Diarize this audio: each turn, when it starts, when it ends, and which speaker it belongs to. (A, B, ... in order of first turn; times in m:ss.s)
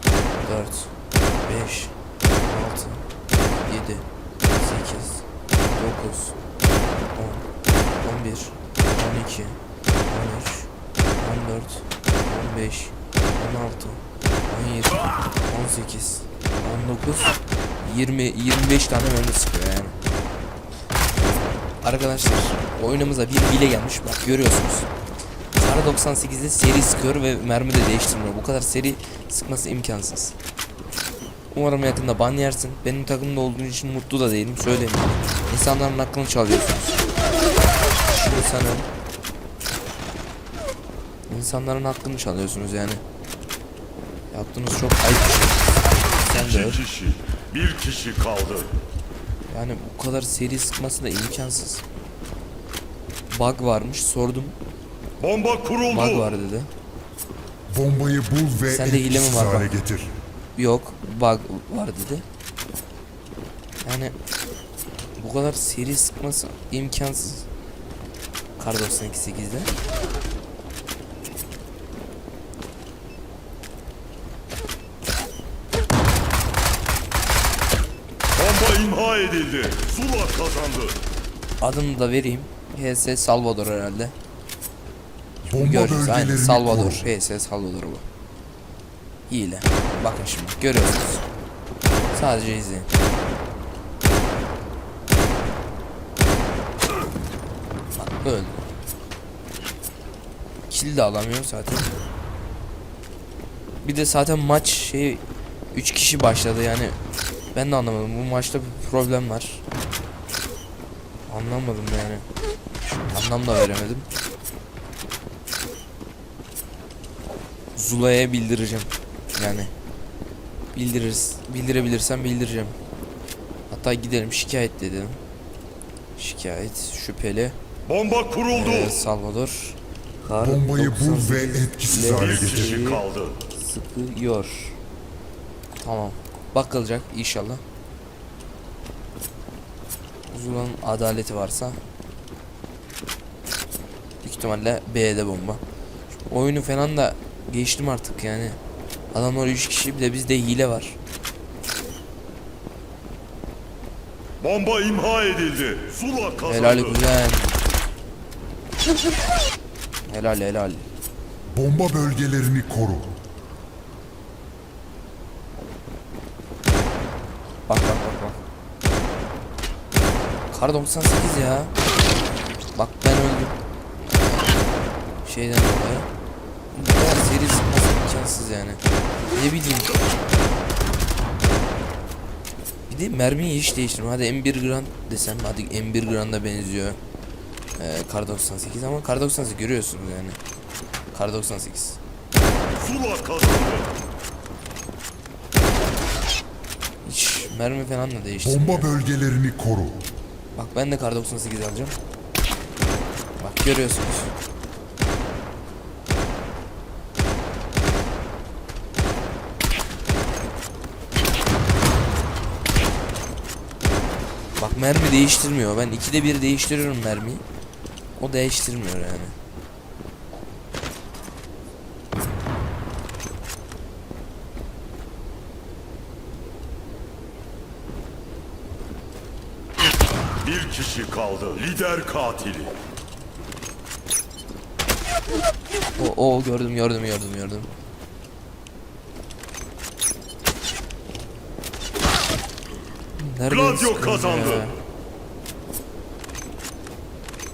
0:00.4-0:00.9 A
0:01.4-0:03.1 A
0:03.6-0:06.4 A
0:07.2-0:07.4 A
0:08.0-0:20.0 A
0:21.8-0:24.9 A
0:25.6-0:30.4 A
0:31.5-0:37.1 A
0:38.0-0:38.9 A
0:41.3-0:43.0 A
0:44.3-0:46.8 A
0:46.3-0:48.7 B
0:49.5-0:51.8 A
0:53.3-0:54.6 A
0:55.2-0:56.3 B
0:55.9-0:56.7 A
0:57.7-1:00.1 C
0:58.6-0:59.7 A
1:00.6-1:02.2 A
1:03.8-1:04.2 A
1:05.2-1:07.5 A
1:08.6-1:09.7 A
1:18.3-1:21.0 B
1:21.6-1:24.1 A
1:25.4-1:27.0 C
1:25.5-1:28.1 A
1:29.3-1:31.2 A
1:32.1-1:32.9 A
1:38.0-1:38.7 A
1:40.7-1:41.9 A
1:43.8-1:47.0 A
1:47.5-1:49.6 A
1:51.3-1:52.2 A
1:53.1-1:54.1 A
1:57.8-1:59.7 A
2:00.7-2:02.8 A
2:03.7-2:05.2 A
2:06.2-2:07.6 A
2:07.9-2:09.0 B
2:08.5-2:14.8 A
2:10.4-2:12.8 C
2:12.0-2:13.4 B
2:15.8-2:17.6 A
2:20.3-2:21.8 A
2:24.2-2:28.6 A
2:29.1-2:31.0 A
2:34.4-2:37.0 B
2:36.4-2:37.5 A
2:40.1-2:40.9 A
2:41.5-2:43.1 C
2:47.7-2:48.4 A
2:50.5-2:51.7 A
2:52.8-2:54.6 A
2:55.2-2:56.1 A
2:56.7-3:00.0 A
3:02.9-3:07.0 A
3:07.8-3:10.4 A
3:11.1-3:12.0 A
3:12.8-3:13.9 B
3:17.0-3:18.9 A
3:18.4-3:20.0 C
3:20.5-3:22.0 A
3:23.4-3:24.3 A
3:34.6-3:37.4 A
3:38.2-3:39.4 A
3:50.4-3:52.8 B
3:56.0-3:57.7 A
4:03.2-4:04.8 A
4:03.5-4:04.7 B